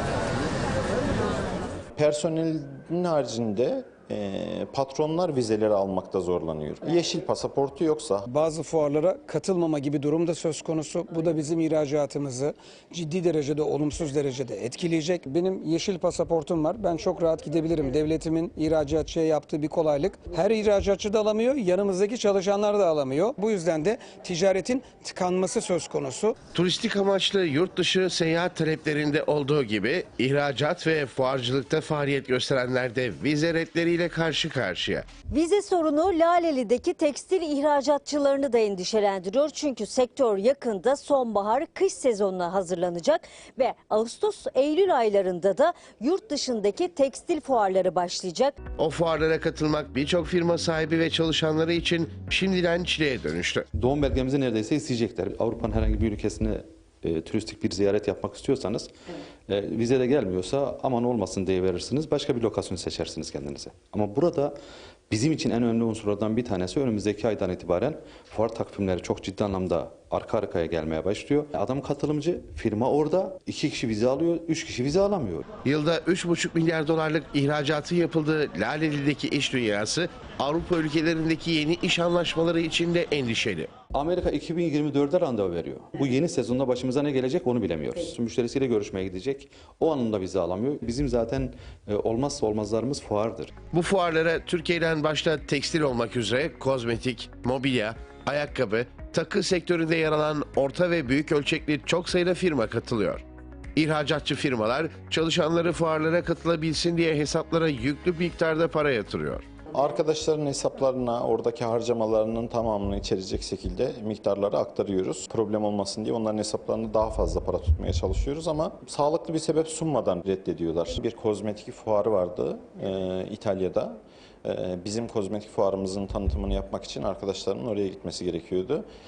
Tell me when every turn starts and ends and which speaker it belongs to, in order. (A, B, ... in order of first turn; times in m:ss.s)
0:02.0-0:08.2 A
0:08.3-0:26.4 B
0:26.5-0:35.1 C
0:35.3-0:48.6 D
0:48.8-0:53.6 C
0:53.7-0:58.9 E
0:59.5-1:04.5 E
1:05.1-1:15.5 E
1:15.6-1:23.7 C
1:23.9-1:33.5 E
1:33.7-1:43.2 C
1:43.7-1:49.4 C
1:49.7-2:08.8 A